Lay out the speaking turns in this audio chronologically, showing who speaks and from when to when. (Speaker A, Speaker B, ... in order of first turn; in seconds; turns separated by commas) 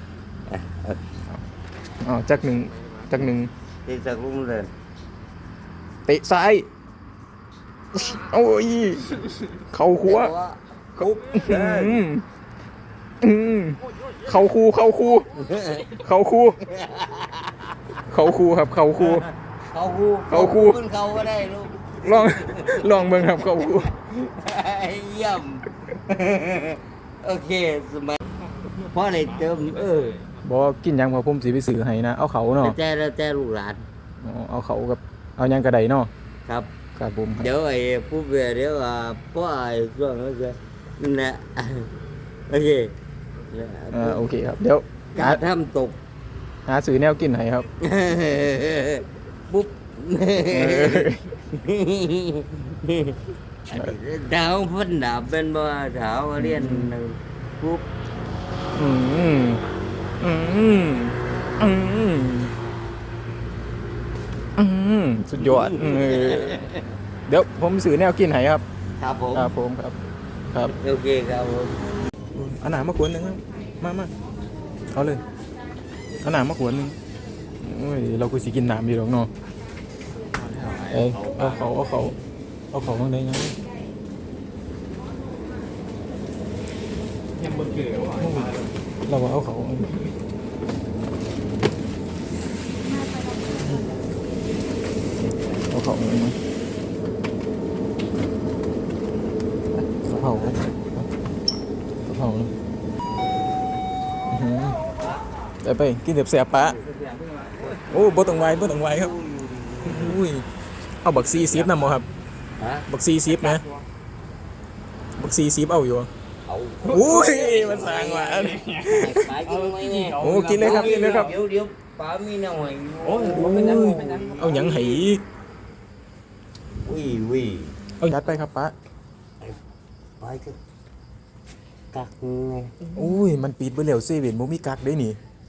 Speaker A: 0.5-1.0, Speaker B: 2.0-3.5, Speaker A: 3.9-4.7, Speaker B: 6.1-6.7, Speaker B: 7.9-10.3, Speaker A: 10.0-12.0, Speaker B: 11.0-12.2, Speaker B: 13.2-15.3, Speaker A: 15.3-16.0, Speaker B: 15.9-16.6, Speaker A: 16.6-17.9, Speaker B: 18.0-19.3, Speaker A: 19.7-22.9, Speaker B: 20.3-20.8, Speaker B: 22.0-23.9, Speaker A: 23.4-28.2, Speaker A: 28.8-30.2, Speaker B: 30.4-32.8, Speaker A: 32.5-33.8, Speaker B: 34.2-36.1, Speaker A: 36.5-36.7, Speaker B: 37.0-37.5, Speaker A: 37.4-41.9, Speaker A: 42.5-42.9, Speaker A: 43.4-44.2, Speaker B: 43.9-45.4, Speaker A: 45.1-46.0, Speaker B: 46.7-47.7, Speaker A: 47.8-57.9, Speaker B: 50.5-51.3, Speaker B: 56.4-56.9, Speaker B: 58.7-59.6, Speaker B: 60.2-62.5, Speaker B: 64.6-66.7, Speaker A: 65.3-66.9, Speaker B: 67.3-68.6, Speaker A: 69.0-69.5, Speaker B: 69.3-70.0, Speaker A: 70.8-71.8, Speaker B: 72.3-74.1, Speaker B: 74.9-75.2, Speaker B: 76.2-77.0, Speaker B: 77.6-79.3, Speaker A: 80.5-81.0, Speaker B: 80.8-82.2, Speaker B: 82.7-83.6, Speaker C: 87.5-88.4, Speaker B: 88.2-89.9, Speaker B: 93.5-93.9, Speaker B: 95.5-96.4, Speaker B: 100.0-101.0, Speaker B: 102.0-102.5, Speaker B: 104.3-104.8, Speaker B: 105.6-106.8, Speaker A: 106.8-110.2, Speaker B: 107.9-109.1, Speaker B: 109.8-110.5, Speaker B: 111.0-112.1, Speaker A: 112.6-112.9, Speaker B: 112.9-113.6, Speaker B: 115.2-116.1, Speaker A: 116.5-125.0, Speaker B: 116.8-119.3, Speaker C: 118.3-118.8, Speaker C: 119.6-121.1, Speaker B: 120.2-121.3, Speaker C: 123.1-124.4, Speaker B: 123.2-125.2, Speaker A: 126.8-127.7, Speaker B: 128.0-128.7, Speaker A: 130.2-130.6, Speaker A: 131.9-132.9, Speaker B: 132.9-135.2